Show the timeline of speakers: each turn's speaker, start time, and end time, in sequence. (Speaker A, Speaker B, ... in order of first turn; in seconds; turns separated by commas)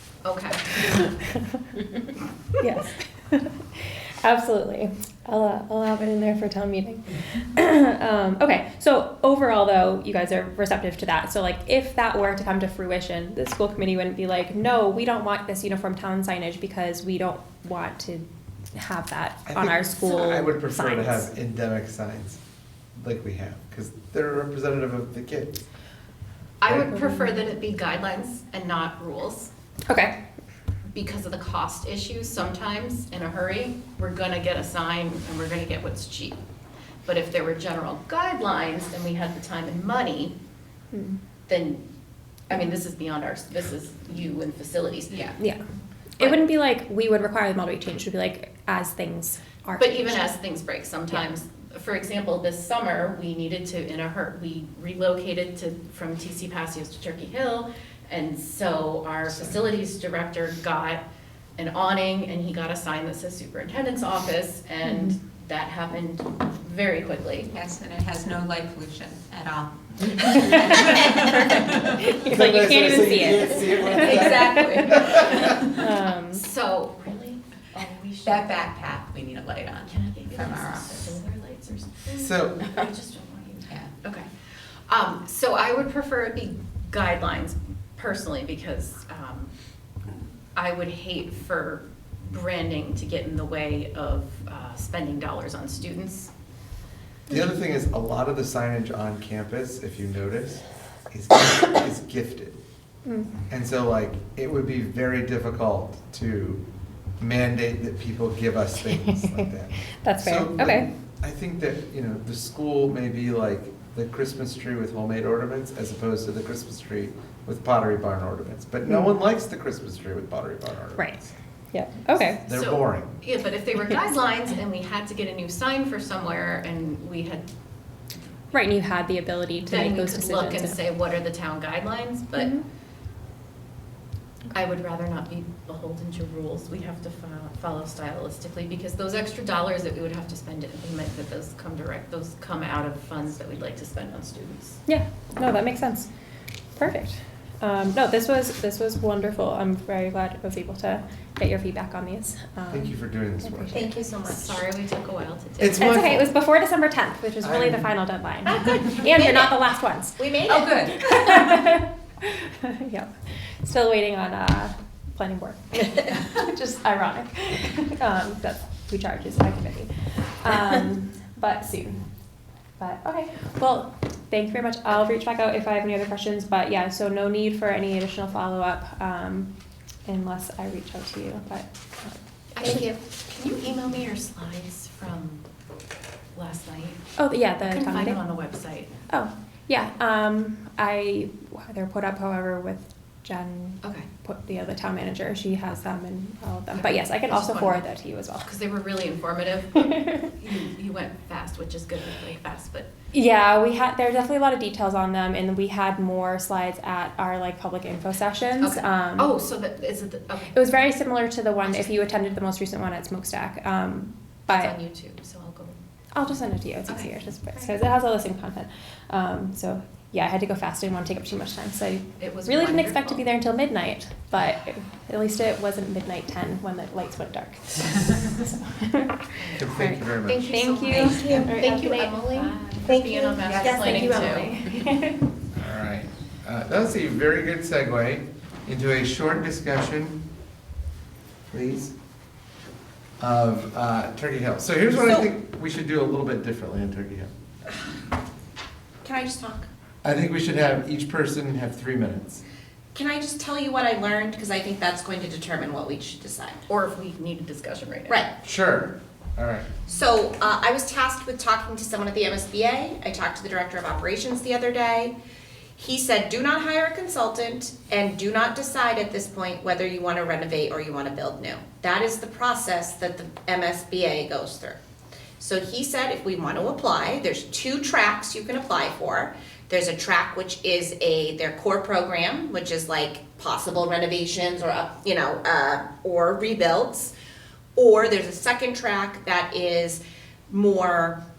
Speaker A: 0.2-0.8, Speaker B: 0.8-1.8, Speaker B: 2.6-21.3, Speaker C: 19.5-22.4, Speaker C: 23.0-25.6, Speaker A: 26.6-29.5, Speaker C: 26.7-27.0, Speaker B: 26.9-27.4, Speaker B: 29.9-30.2, Speaker A: 30.9-36.4, Speaker A: 37.1-40.3, Speaker B: 40.9-41.2, Speaker A: 41.5-41.9, Speaker A: 42.5-45.4, Speaker B: 45.4-45.6, Speaker B: 46.2-50.3, Speaker A: 49.8-61.0, Speaker C: 59.3-59.6, Speaker A: 61.6-67.5, Speaker B: 64.8-65.2, Speaker D: 67.5-72.2, Speaker B: 70.4-71.5, Speaker B: 72.0-74.5, Speaker C: 72.3-75.5, Speaker D: 73.7-75.9, Speaker B: 75.7-76.5, Speaker A: 76.3-78.6, Speaker D: 78.2-81.2, Speaker A: 79.8-84.3, Speaker C: 82.2-82.6, Speaker A: 84.9-89.5, Speaker A: 90.5-96.3, Speaker C: 97.3-102.6, Speaker B: 103.0-103.4, Speaker C: 103.5-106.6, Speaker C: 107.2-121.1, Speaker B: 108.9-110.9, Speaker B: 118.9-119.1, Speaker B: 121.0-122.4, Speaker C: 122.5-123.2, Speaker A: 122.5-127.5, Speaker B: 128.5-130.8, Speaker A: 129.7-132.5, Speaker B: 132.4-132.6, Speaker A: 134.5-144.8, Speaker B: 144.9-146.1, Speaker B: 146.8-154.3, Speaker C: 152.7-153.9, Speaker E: 153.7-154.5, Speaker A: 154.1-155.9, Speaker C: 155.6-156.3, Speaker B: 155.8-160.3, Speaker C: 157.4-157.9, Speaker E: 158.5-159.6, Speaker E: 160.2-161.0, Speaker D: 160.5-161.4, Speaker B: 160.9-172.1, Speaker B: 172.8-179.5, Speaker B: 180.1-182.8, Speaker A: 182.6-185.5, Speaker A: 186.3-187.0, Speaker B: 187.2-188.2, Speaker A: 187.7-188.9, Speaker B: 189.1-198.5, Speaker A: 196.7-197.9, Speaker A: 198.4-202.9, Speaker B: 199.9-200.2, Speaker B: 203.1-209.4, Speaker A: 208.6-210.8, Speaker B: 210.5-214.8, Speaker A: 211.6-212.0, Speaker A: 214.5-215.8, Speaker B: 216.1-235.2, Speaker A: 216.9-217.8, Speaker A: 222.2-223.3, Speaker A: 229.4-229.7, Speaker C: 229.6-230.5, Speaker A: 230.3-234.5, Speaker D: 230.9-231.6, Speaker D: 232.8-234.8, Speaker C: 235.6-240.2, Speaker C: 241.5-241.9, Speaker C: 243.2-247.3, Speaker E: 244.9-245.3, Speaker E: 249.0-249.7, Speaker C: 250.0-252.4, Speaker E: 252.9-256.6, Speaker A: 256.7-258.2, Speaker C: 258.4-259.7, Speaker E: 259.9-265.1, Speaker E: 265.8-274.8, Speaker E: 275.4-287.1, Speaker E: 287.8-291.2